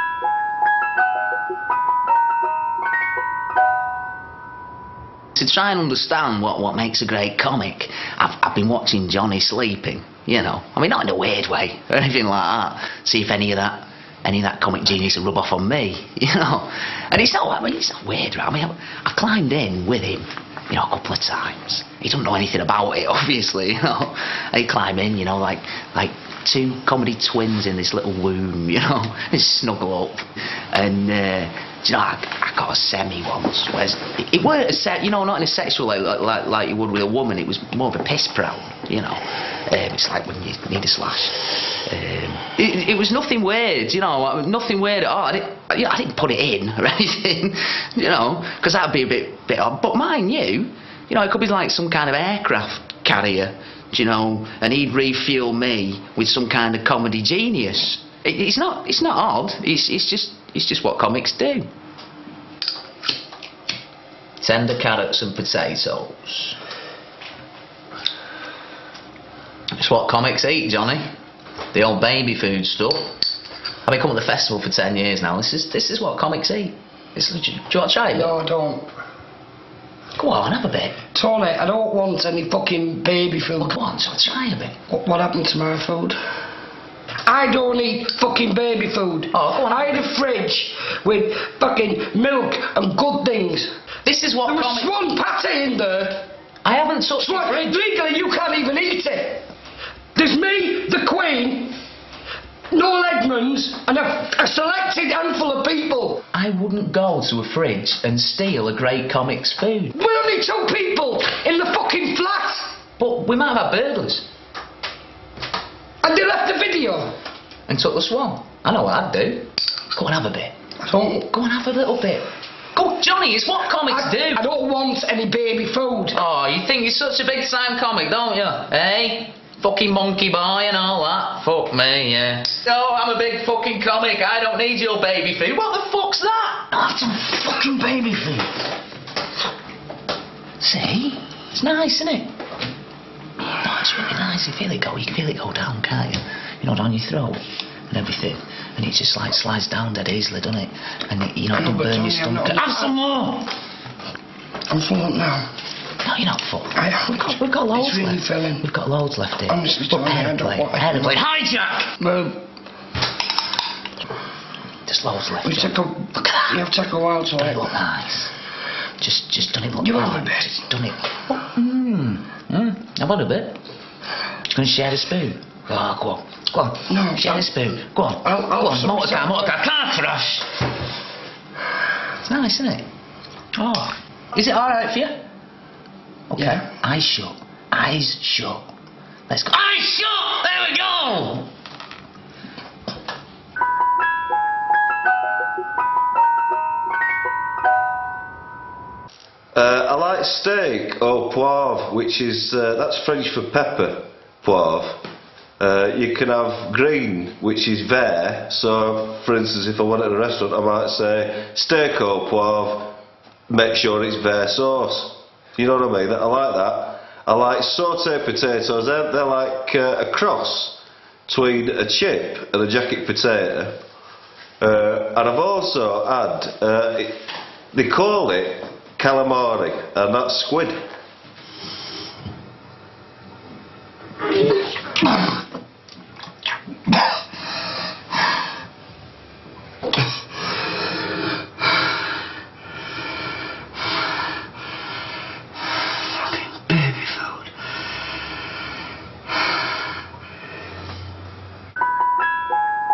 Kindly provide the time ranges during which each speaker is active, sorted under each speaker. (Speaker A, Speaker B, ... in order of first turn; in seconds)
Speaker A: 5.3-61.7, 64.4-66.6, 69.7-71.1, 71.7-73.2, 73.8-78.3, 80.2-81.0, 83.6-84.8, 89.3-90.0, 94.0-94.9, 96.6-97.7, 106.3-109.9, 113.0-114.3, 117.7-124.4, 126.1-138.5, 140.6-142.3, 143.6-153.5, 156.0-162.0, 164.8-166.6, 167.4-168.3, 169.0-173.6, 174.5-180.4, 182.2-182.9, 183.5-185.2, 186.3-188.7, 189.3-191.5
Speaker B: 78.1-78.9, 81.1-83.8, 84.9-86.2, 87.3-93.7, 94.4-96.3, 97.2-99.4, 100.1-101.7, 102.7-106.2, 109.9-112.7, 116.0-117.1, 120.8-121.2, 123.9-126.2, 151.5-152.9, 154.7-155.5, 156.7-158.7, 159.5-161.2, 162.0-162.4, 165.4-167.7, 169.8-170.6, 176.9-177.5, 178.2-179.6, 186.4-186.7
Speaker C: 199.5-205.0, 205.6-213.0, 213.5-223.8, 224.6-227.2, 227.7-230.8